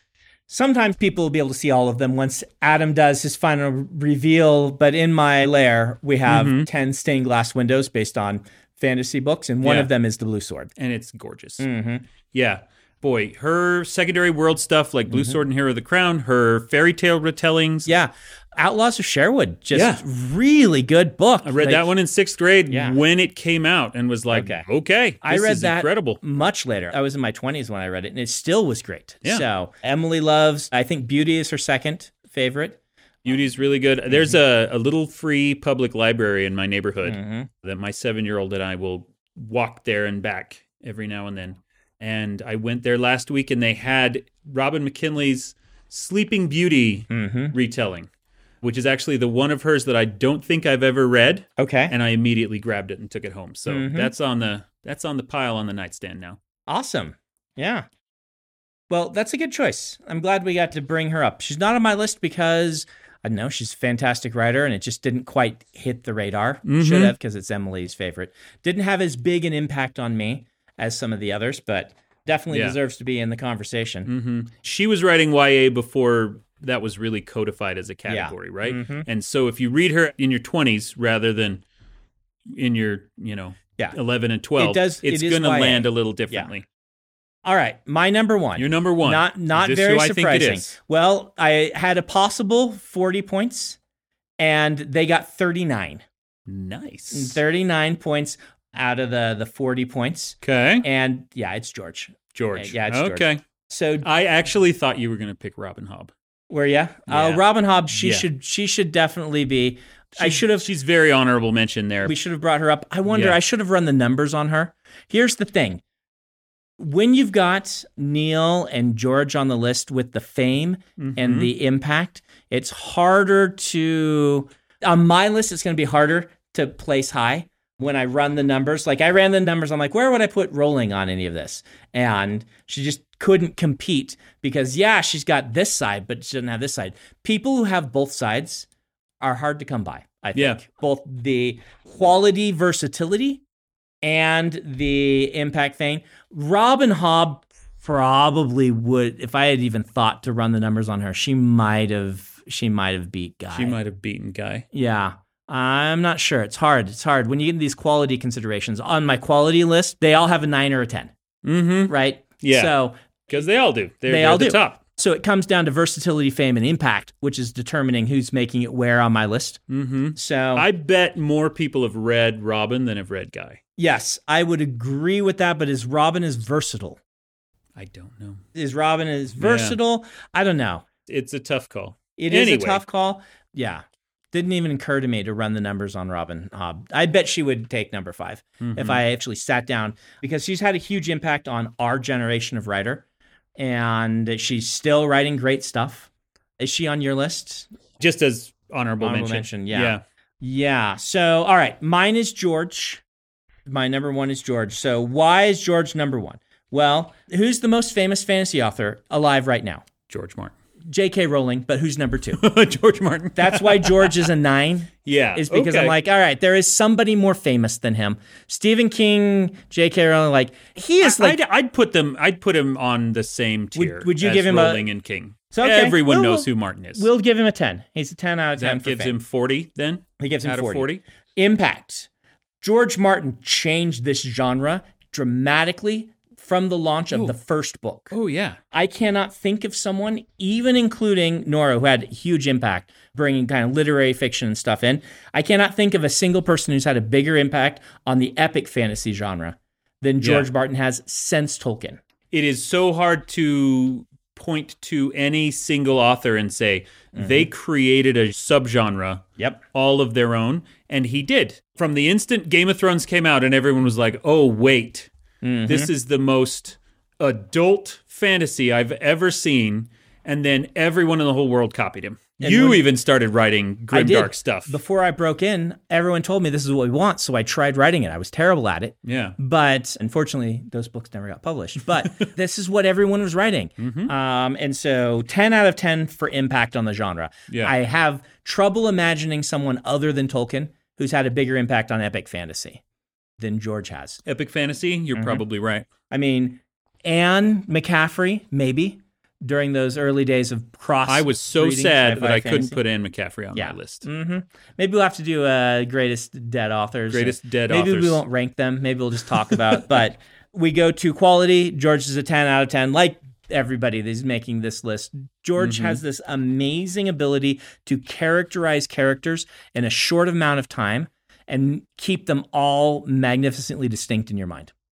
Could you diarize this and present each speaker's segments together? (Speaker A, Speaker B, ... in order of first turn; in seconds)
Speaker A: 0.5-10.7, 11.6-12.0, 15.1-15.4, 17.9-21.9, 22.7-23.0, 24.3-24.7, 25.2-32.8, 34.1-34.4, 37.0-37.5, 47.1-47.5, 51.6-51.9, 53.7-54.1, 56.7-57.9, 58.9-74.1, 78.1-79.1, 84.6-86.5, 87.4-93.8, 94.4-96.0, 97.1-104.1, 106.5-110.7, 112.0-115.8, 116.8-138.7, 139.2-143.4, 144.0-153.8, 154.7-161.1, 161.9-163.0, 164.1-169.6, 170.2-170.7, 173.8-177.0, 178.5-180.8, 182.2-193.0, 193.6-197.7, 199.0-203.0, 203.7-209.9, 210.9-212.4, 213.4-221.4, 223.8-224.9, 225.5-229.2, 230.2-232.1, 232.6-238.1, 238.7-252.0, 257.1-257.5, 265.4-265.9, 272.4-272.9, 273.9-292.8, 293.4-294.2, 295.1-295.4, 296.1-302.8, 303.5-324.7
Speaker B: 6.3-6.7, 9.6-9.9, 10.8-11.7, 12.3-17.9, 19.7-20.0, 21.4-26.2, 33.2-48.1, 48.6-56.4, 66.7-67.2, 72.5-72.8, 74.0-81.6, 82.5-86.7, 88.6-90.8, 96.5-97.4, 100.4-100.9, 102.3-103.4, 104.0-106.1, 107.1-108.3, 110.2-112.2, 113.1-113.4, 121.0-121.5, 140.3-140.6, 153.5-154.7, 161.4-162.7, 163.3-164.8, 169.7-173.6, 177.8-178.4, 179.4-179.8, 181.1-182.8, 188.6-189.0, 198.0-200.0, 210.1-210.5, 212.3-214.3, 215.1-216.0, 221.0-227.1, 228.6-231.0, 238.1-238.6, 250.2-250.5, 252.3-265.1, 265.6-274.8, 279.0-279.4, 283.8-284.1, 287.5-287.7, 294.3-295.9, 301.1-304.1, 307.1-308.2, 315.6-316.0